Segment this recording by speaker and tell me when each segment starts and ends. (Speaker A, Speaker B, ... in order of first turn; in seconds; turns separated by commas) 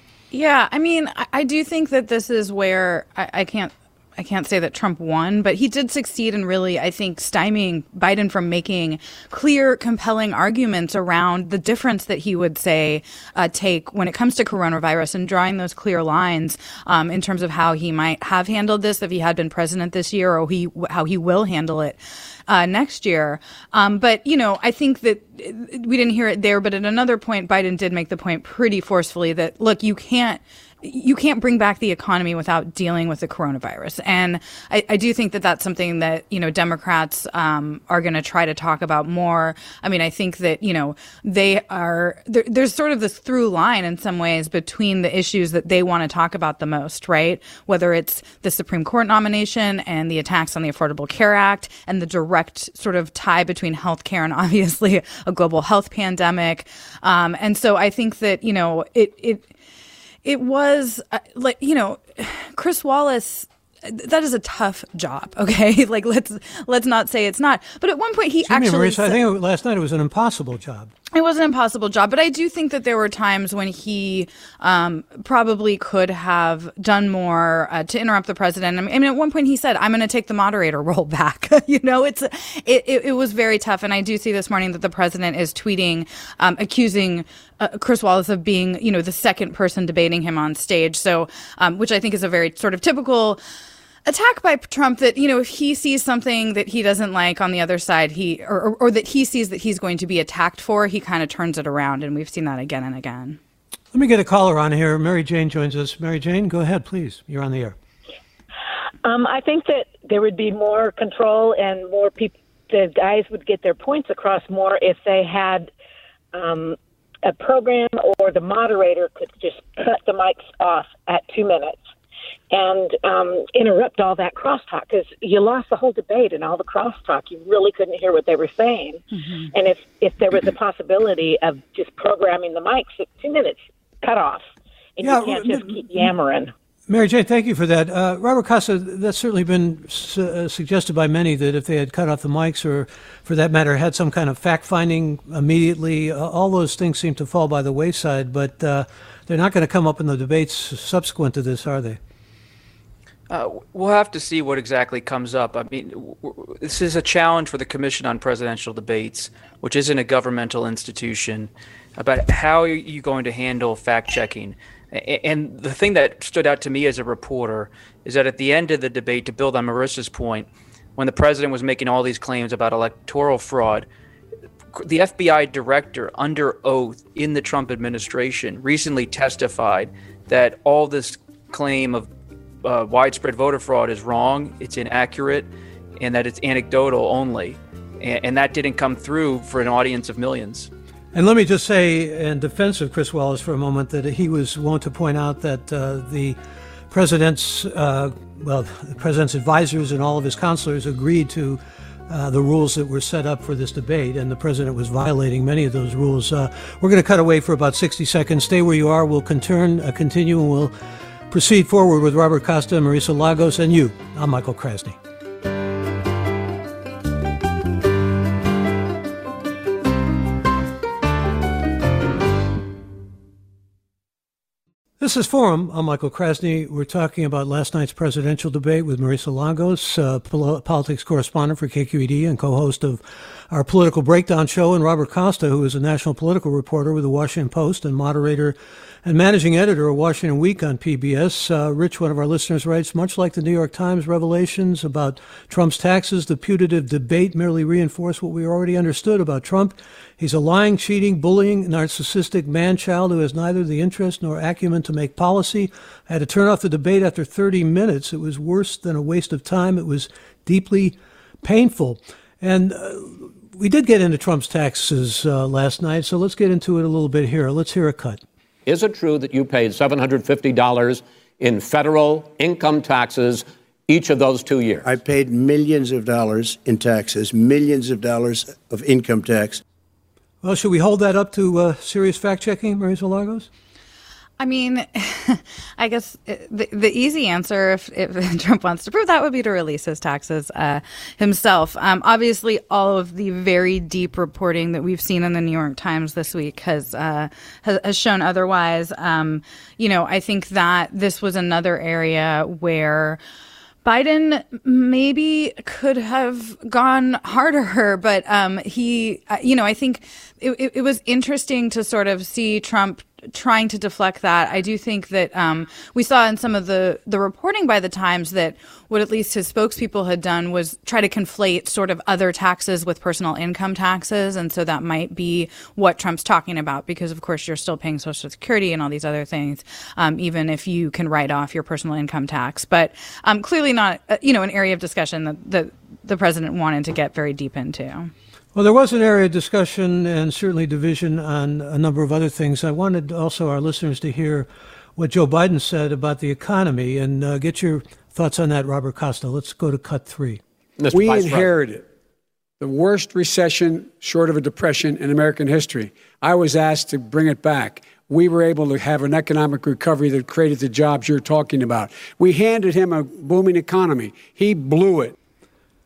Speaker A: 0.3-59.5, Speaker A: 60.2-69.2, Speaker B: 68.4-70.9, Speaker A: 71.1-93.4, Speaker A: 94.0-103.4, Speaker B: 103.9-107.8, Speaker C: 109.0-115.7, Speaker C: 116.3-121.8, Speaker C: 122.5-136.5, Speaker B: 135.0-136.1, Speaker B: 136.9-152.0, Speaker D: 153.3-173.8, Speaker D: 174.7-182.1, Speaker D: 182.6-185.5, Speaker D: 186.0-190.7, Speaker B: 191.1-196.4, Speaker B: 196.9-210.7, Speaker B: 211.3-215.0, Speaker B: 225.0-268.2, Speaker E: 268.6-274.9, Speaker F: 274.8-279.6, Speaker B: 280.4-283.5, Speaker A: 284.4-303.2, Speaker A: 303.8-338.1, Speaker B: 338.5-350.4, Speaker E: 350.8-351.5, Speaker G: 350.9-351.8, Speaker G: 352.6-365.1